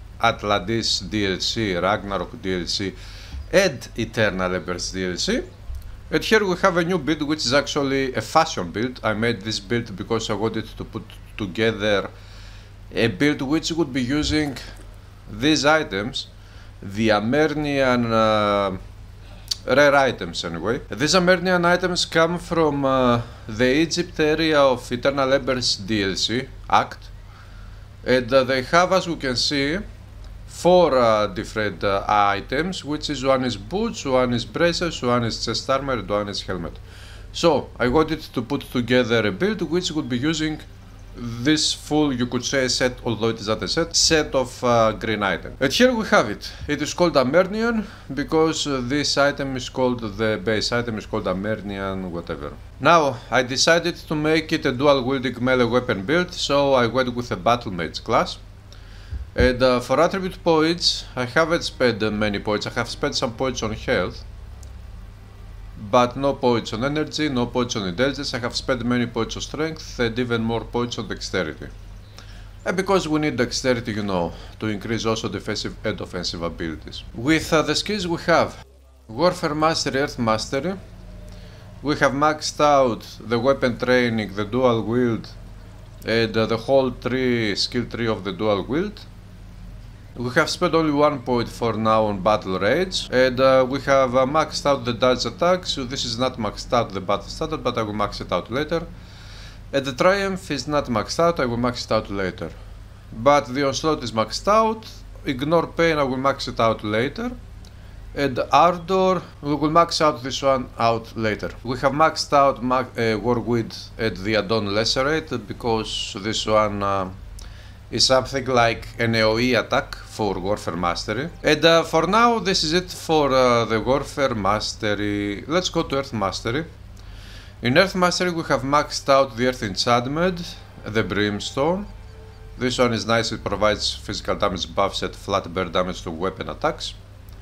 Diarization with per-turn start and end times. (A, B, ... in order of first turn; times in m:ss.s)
0:00.2-0:03.0 A
0:03.5-0:05.5 A
0:06.1-0:12.1 A
0:12.9-0:14.6 A
0:15.3-0:16.3 A
0:16.8-0:18.8 A
0:19.6-0:27.1 A
0:28.0-0:29.8 A
0:30.5-0:36.8 A
0:37.3-0:58.4 A
0:59.4-1:04.2 A
1:05.8-1:11.7 A
1:12.6-1:20.8 A
1:21.8-1:25.4 A
1:26.0-1:29.1 A
1:30.2-1:38.9 A
1:39.7-1:42.6 A
1:43.1-1:47.4 A
1:48.1-1:57.2 A
1:57.9-2:06.7 A
2:07.6-2:11.9 A
2:12.6-2:17.0 A